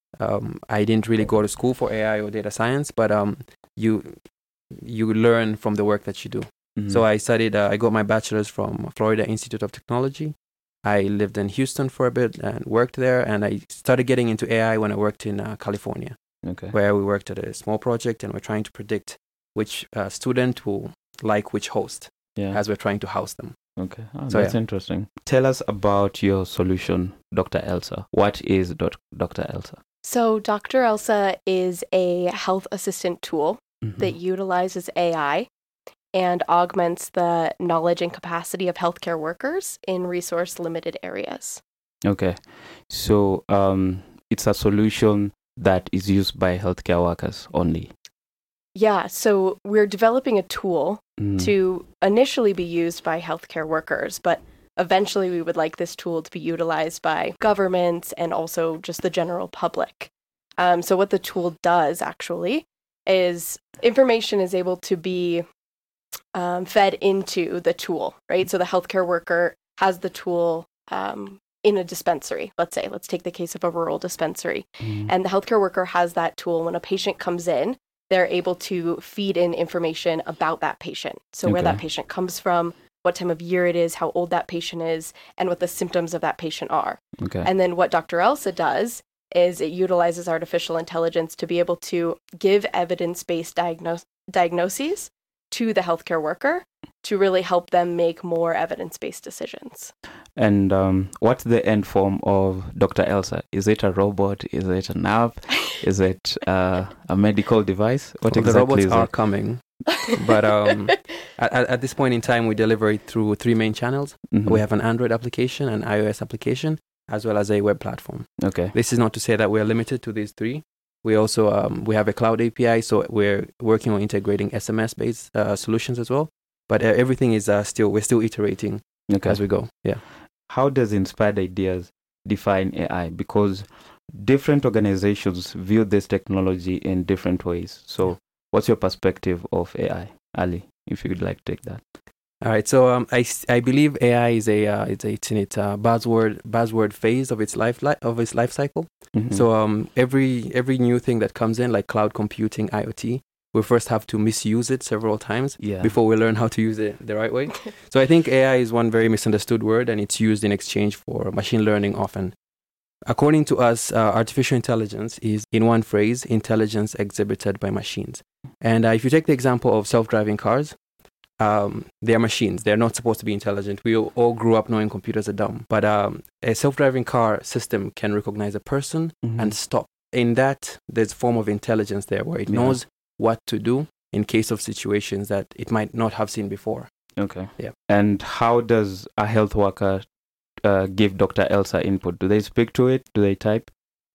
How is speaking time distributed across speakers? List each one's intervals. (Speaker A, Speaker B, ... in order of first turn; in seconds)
Speaker A: 0.2-23.7, 24.3-24.6, 108.3-130.1, 142.4-162.4, 163.1-170.8, 171.4-187.7
Speaker B: 6.8-7.0, 16.4-16.8, 22.4-22.6, 23.8-29.8, 33.8-34.1, 42.0-47.9, 51.2-51.5, 74.8-75.1, 81.5-81.8, 87.2-87.5, 100.3-109.5, 114.3-114.6, 118.4-118.7, 129.1-141.8, 149.1-149.4, 155.6-155.9, 179.2-179.6, 182.5-182.8, 187.2-193.7
Speaker C: 30.0-35.5, 36.1-41.6, 48.7-65.5, 66.3-99.9